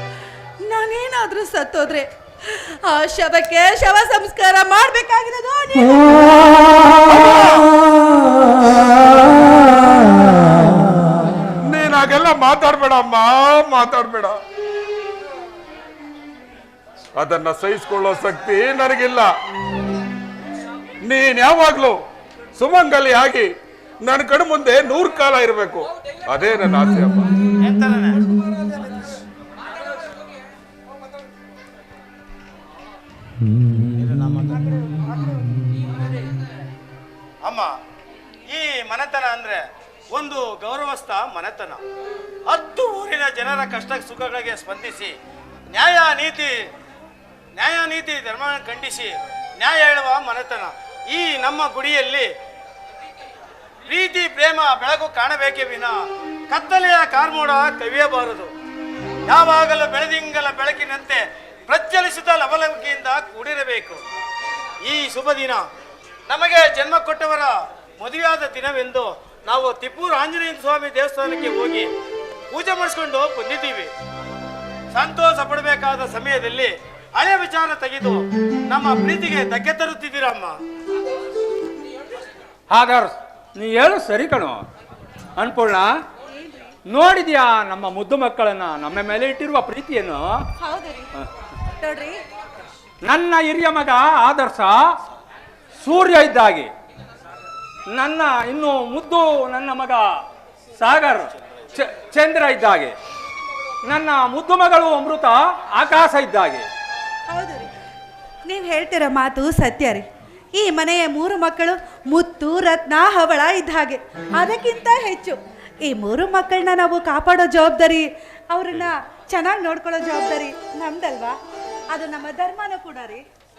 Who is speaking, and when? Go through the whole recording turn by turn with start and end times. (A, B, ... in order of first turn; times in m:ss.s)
0:00.6-0:06.8 A
0:06.9-0:07.7 B
0:11.6-0:14.4 B
0:17.1-0:19.3 B
0:21.0-0:22.0 B
0:22.6-0:27.3 B
0:27.6-0:28.3 C
0:33.9-0:35.0 C
0:37.4-0:37.7 C
0:38.5-0:41.8 C
0:42.5-0:45.1 C
0:45.7-0:46.5 C
0:47.6-0:52.3 C
0:53.8-0:56.0 C
0:56.5-0:58.5 C
0:59.3-1:04.0 C
1:04.8-1:05.6 C
1:06.3-1:11.9 C
1:12.5-1:13.9 C
1:14.9-1:20.5 C
1:22.7-1:24.6 D
1:25.4-1:25.9 D
1:26.3-1:26.8 A
1:26.8-1:30.4 D
1:30.6-1:31.1 A
1:31.8-1:32.2 A
1:33.0-1:34.9 D
1:35.8-1:36.7 D
1:37.9-1:40.2 D
1:40.8-1:43.0 D
1:43.8-1:46.7 D
1:47.3-1:47.7 A
1:48.5-2:01.4 A
2:01.9-2:03.2 A